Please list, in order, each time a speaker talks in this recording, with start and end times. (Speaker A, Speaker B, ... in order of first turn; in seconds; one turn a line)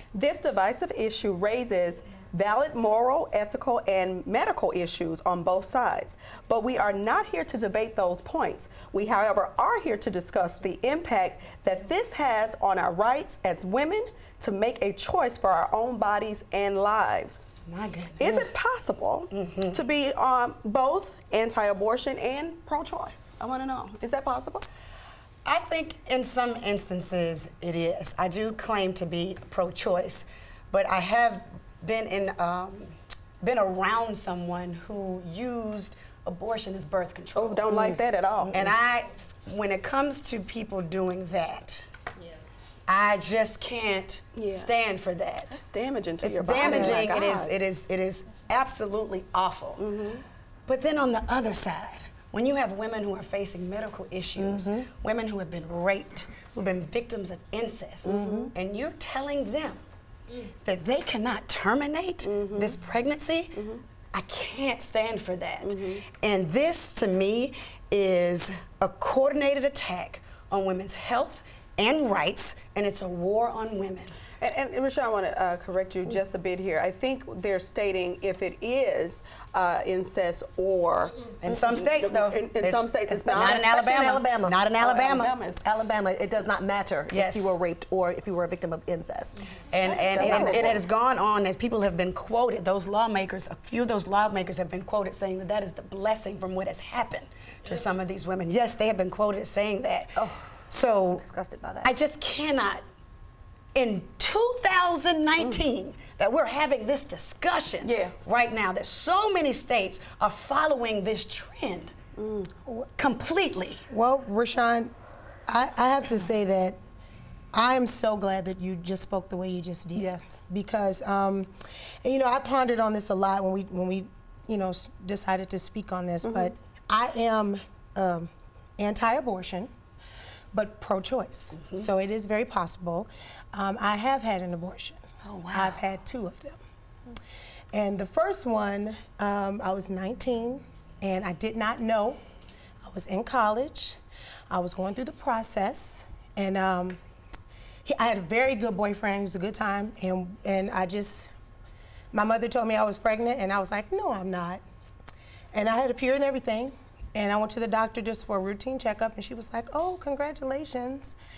Speaker A: 0.1-17.4
Speaker B: 17.7-18.5
Speaker A: 18.2-24.7
Speaker B: 19.3-19.8
Speaker B: 25.4-37.9
Speaker A: 37.4-38.7
Speaker B: 38.5-41.8
Speaker B: 42.9-45.6
Speaker A: 44.4-44.7
Speaker A: 45.5-47.5
Speaker B: 46.2-49.9
Speaker C: 46.6-47.3
Speaker A: 49.8-50.2
Speaker B: 50.7-59.8
Speaker C: 54.4-54.9
Speaker A: 58.0-58.5
Speaker C: 58.1-58.5
Speaker B: 60.6-74.1
Speaker A: 62.3-62.8
Speaker A: 65.6-66.0
Speaker A: 74.4-83.7
Speaker B: 81.4-85.3
Speaker C: 83.1-84.6
Speaker A: 84.8-85.6
Speaker C: 85.6-89.5
Speaker B: 87.1-87.6
Speaker B: 89.7-101.2
Speaker A: 90.1-90.8
Speaker C: 90.1-90.8
Speaker C: 100.2-100.4
Speaker C: 101.1-101.9
Speaker B: 101.8-102.8
Speaker B: 103.8-111.9
Speaker A: 107.8-108.2
Speaker A: 112.2-112.5
Speaker B: 113.0-113.8
Speaker D: 113.9-114.9
Speaker D: 115.5-116.8
Speaker D: 117.5-121.5
Speaker C: 120.0-120.3
Speaker D: 122.0-129.7
Speaker A: 126.2-126.5
Speaker D: 130.5-136.6
Speaker B: 135.2-135.8
Speaker D: 137.7-142.2
Speaker D: 142.8-144.0
Speaker D: 144.5-147.0
Speaker D: 147.8-151.3
Speaker D: 152.1-154.6
Speaker D: 155.5-161.2